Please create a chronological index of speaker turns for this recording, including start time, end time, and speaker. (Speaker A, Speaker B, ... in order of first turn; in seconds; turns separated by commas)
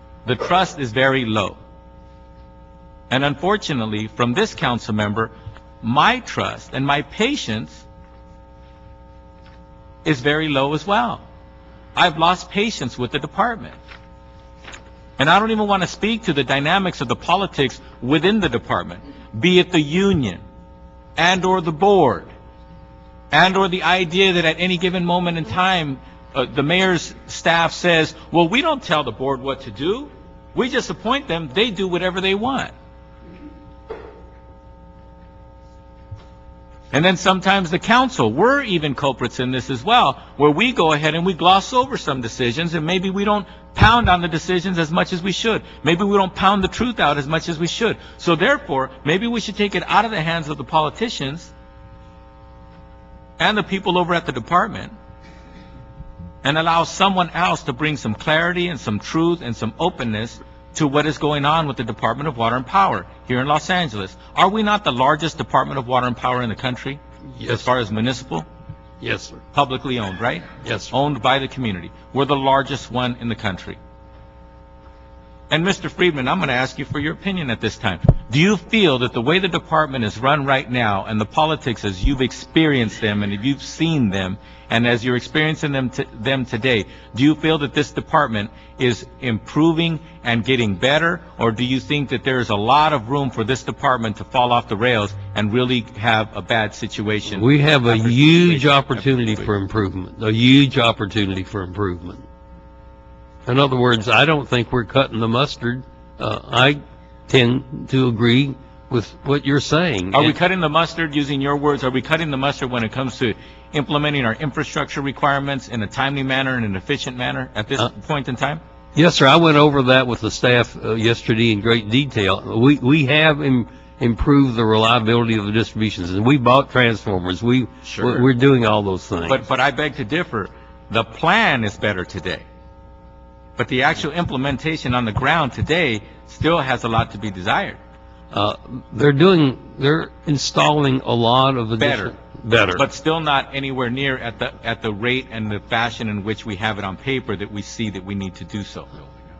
Speaker A: 0.2-1.6, Speaker A: 3.1-7.8, Speaker A: 10.0-11.2, Speaker A: 11.9-13.8, Speaker A: 15.2-20.4, Speaker A: 21.2-22.3, Speaker A: 23.3-32.7, Speaker A: 36.9-51.5, Speaker A: 53.4-54.9, Speaker A: 56.4-68.5, Speaker B: 67.4-67.7, Speaker B: 69.0-69.4, Speaker A: 69.5-73.8, Speaker B: 70.6-70.9, Speaker A: 75.5-99.5, Speaker B: 97.3-102.2, Speaker B: 103.5-110.3, Speaker A: 110.1-118.6, Speaker B: 118.9-129.4, Speaker A: 127.8-128.3, Speaker A: 129.3-132.4, Speaker A: 133.6-137.8, Speaker B: 138.3-142.8, Speaker A: 141.8-142.2, Speaker A: 142.7-149.1